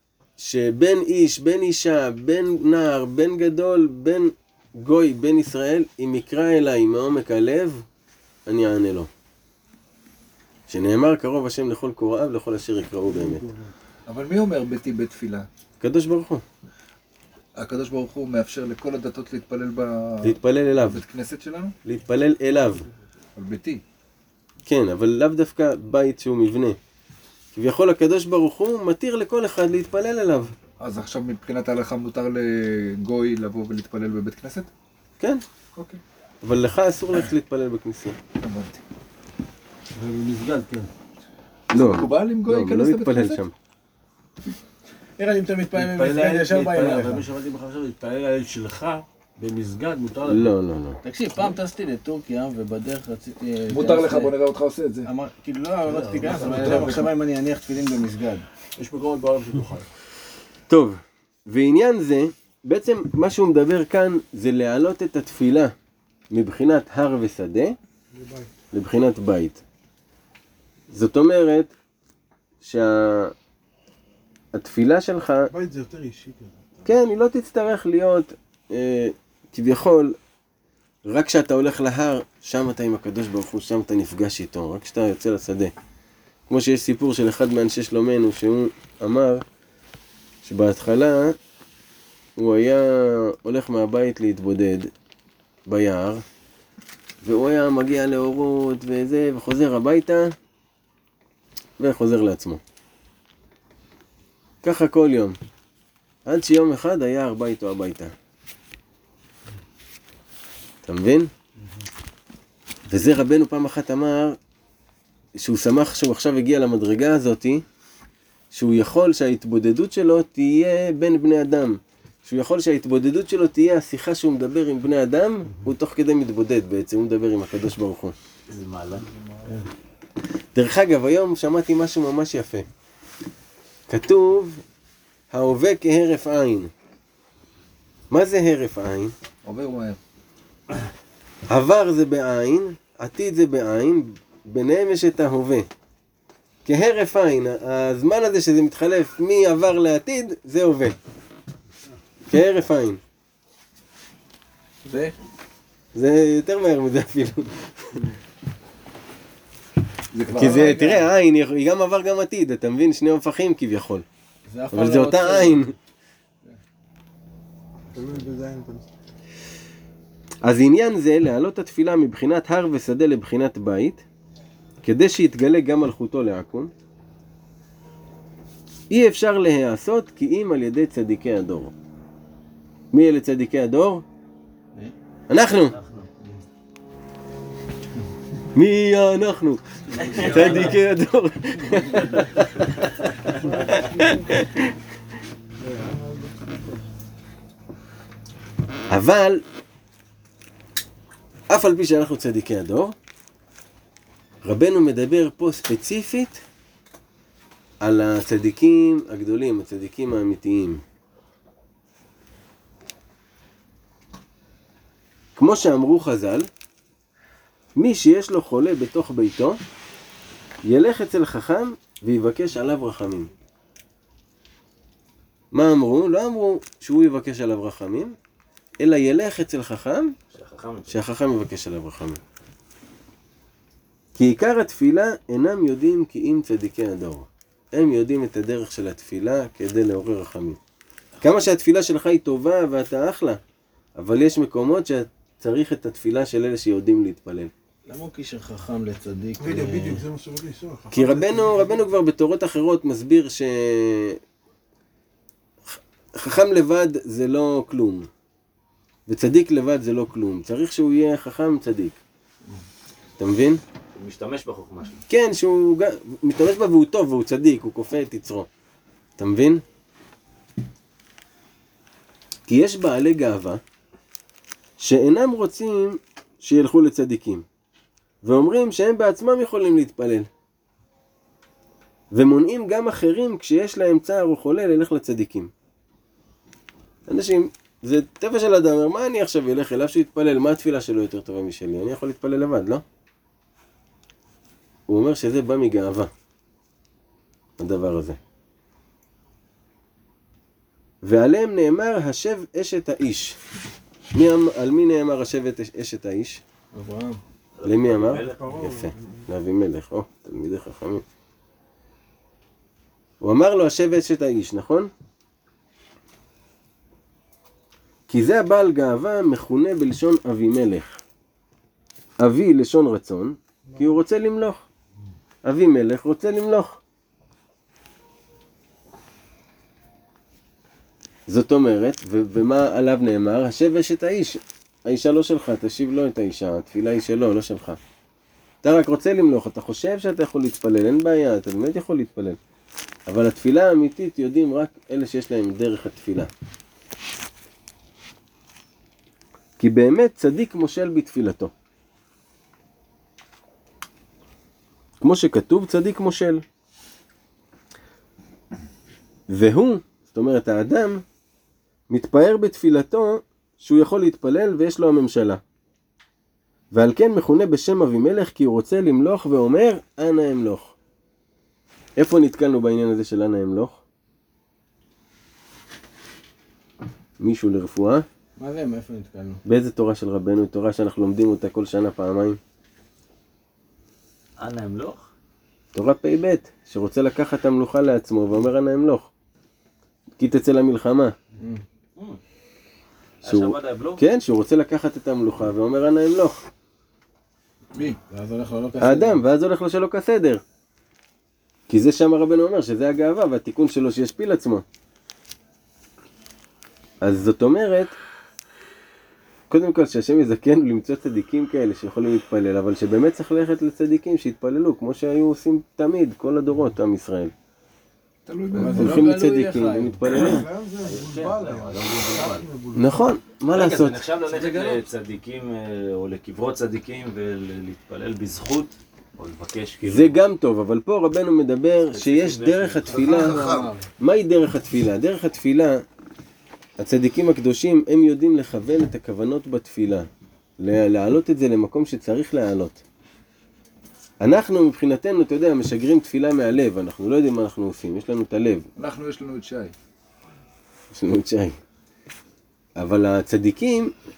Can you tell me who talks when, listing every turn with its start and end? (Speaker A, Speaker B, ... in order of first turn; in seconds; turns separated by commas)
Speaker A: 0.4-7.8, Speaker A: 8.5-9.1, Speaker A: 10.7-13.4, Speaker B: 13.1-13.7, Speaker C: 14.1-15.5, Speaker A: 15.8-16.4, Speaker C: 17.6-21.8, Speaker A: 20.2-21.0, Speaker A: 21.9-22.9, Speaker C: 23.4-23.8, Speaker A: 24.7-26.8, Speaker A: 27.6-30.5, Speaker C: 30.8-34.7, Speaker C: 35.7-36.0, Speaker A: 36.4-38.2, Speaker C: 38.4-38.8, Speaker C: 41.7-43.4, Speaker A: 41.7-43.5, Speaker D: 45.2-47.7, Speaker E: 46.1-47.2, Speaker E: 48.0-48.8, Speaker E: 49.4-49.8, Speaker D: 50.1-50.4, Speaker A: 50.3-51.0, Speaker D: 51.0-54.4, Speaker C: 53.7-55.1, Speaker D: 55.0-58.5, Speaker C: 55.9-57.1, Speaker A: 60.7-65.7, Speaker A: 66.3-67.8, Speaker B: 68.1-68.5, Speaker A: 68.7-69.6, Speaker A: 70.9-71.7, Speaker A: 72.6-73.3, Speaker A: 74.5-75.5, Speaker B: 75.5-76.9, Speaker A: 76.9-80.2, Speaker A: 81.1-85.7, Speaker A: 86.5-89.4, Speaker A: 90.4-91.4, Speaker A: 92.4-94.9, Speaker A: 95.7-96.2, Speaker A: 97.2-100.3, Speaker A: 101.8-102.6, Speaker A: 104.6-105.4, Speaker A: 106.3-108.1, Speaker A: 110.8-111.3, Speaker A: 112.9-114.4, Speaker A: 115.4-117.6, Speaker A: 118.5-128.2, Speaker F: 128.5-129.1, Speaker A: 130.5-132.7, Speaker A: 133.9-134.6, Speaker A: 135.3-136.7, Speaker A: 138.1-139.1, Speaker C: 139.4-140.0, Speaker A: 141.5-145.7, Speaker A: 146.7-151.0, Speaker A: 152.3-153.0, Speaker D: 154.9-155.2, Speaker A: 155.9-158.1, Speaker C: 160.1-160.9, Speaker A: 160.3-164.1, Speaker D: 160.4-160.9, Speaker B: 160.5-160.8, Speaker D: 164.5-165.7, Speaker A: 164.7-165.7, Speaker B: 167.9-168.9, Speaker A: 170.4-174.0, Speaker A: 174.8-176.7, Speaker A: 178.9-181.7, Speaker A: 182.9-184.0, Speaker A: 185.3-185.8, Speaker F: 185.6-186.1, Speaker A: 188.6-194.7, Speaker C: 190.1-190.7, Speaker F: 190.2-190.7, Speaker D: 190.4-190.7, Speaker B: 193.4-194.4, Speaker B: 195.6-196.8, Speaker A: 198.9-199.4, Speaker A: 201.5-203.0, Speaker A: 204.4-206.4, Speaker A: 207.8-210.8, Speaker A: 215.4-216.5, Speaker A: 217.8-219.6, Speaker A: 220.7-223.3, Speaker A: 225.5-228.2, Speaker A: 228.8-230.2, Speaker F: 230.3-230.9, Speaker A: 230.9-232.2, Speaker A: 234.2-240.6, Speaker A: 241.2-243.4, Speaker A: 244.0-247.5, Speaker D: 247.9-250.0, Speaker B: 249.4-251.8, Speaker A: 250.9-254.2, Speaker A: 255.7-258.1, Speaker A: 259.1-262.0, Speaker A: 263.2-263.6, Speaker F: 264.0-265.0, Speaker A: 265.1-268.5, Speaker A: 269.2-269.6, Speaker A: 272.5-273.6, Speaker A: 274.8-277.4, Speaker A: 278.2-280.3, Speaker A: 282.1-285.5, Speaker A: 287.1-292.8, Speaker A: 294.9-296.1, Speaker A: 297.6-298.2, Speaker A: 301.0-303.4, Speaker A: 304.1-306.4, Speaker D: 306.7-307.2, Speaker F: 307.6-308.5, Speaker A: 307.6-311.0, Speaker B: 308.3-309.2, Speaker A: 313.2-314.9, Speaker A: 318.1-321.0, Speaker A: 322.2-324.7, Speaker A: 325.4-326.8, Speaker A: 331.3-337.8, Speaker A: 338.6-342.4, Speaker A: 343.1-346.3, Speaker A: 349.6-351.5, Speaker A: 355.0-356.4, Speaker A: 359.3-361.0, Speaker A: 361.9-365.4, Speaker A: 366.7-370.8, Speaker A: 372.0-373.8, Speaker A: 377.2-378.1, Speaker D: 378.4-379.4, Speaker A: 379.4-382.4, Speaker F: 384.4-385.1, Speaker A: 385.7-389.1, Speaker A: 390.2-391.1, Speaker D: 391.4-391.6, Speaker F: 393.2-394.0, Speaker A: 393.3-396.5, Speaker D: 397.8-399.2, Speaker A: 398.8-400.4, Speaker A: 401.7-404.6, Speaker A: 407.0-407.9, Speaker A: 409.5-417.3, Speaker C: 418.3-419.2, Speaker D: 418.6-420.4, Speaker A: 418.7-420.5, Speaker B: 420.1-423.1, Speaker F: 420.8-422.5, Speaker A: 422.7-424.0, Speaker F: 423.5-430.1, Speaker A: 429.8-433.4, Speaker F: 431.9-433.0, Speaker C: 432.9-433.7, Speaker D: 433.0-433.9, Speaker A: 434.0-435.8, Speaker A: 436.8-440.1, Speaker A: 440.6-442.8, Speaker A: 444.2-448.7, Speaker C: 448.8-449.7, Speaker A: 450.9-451.6, Speaker A: 452.8-453.9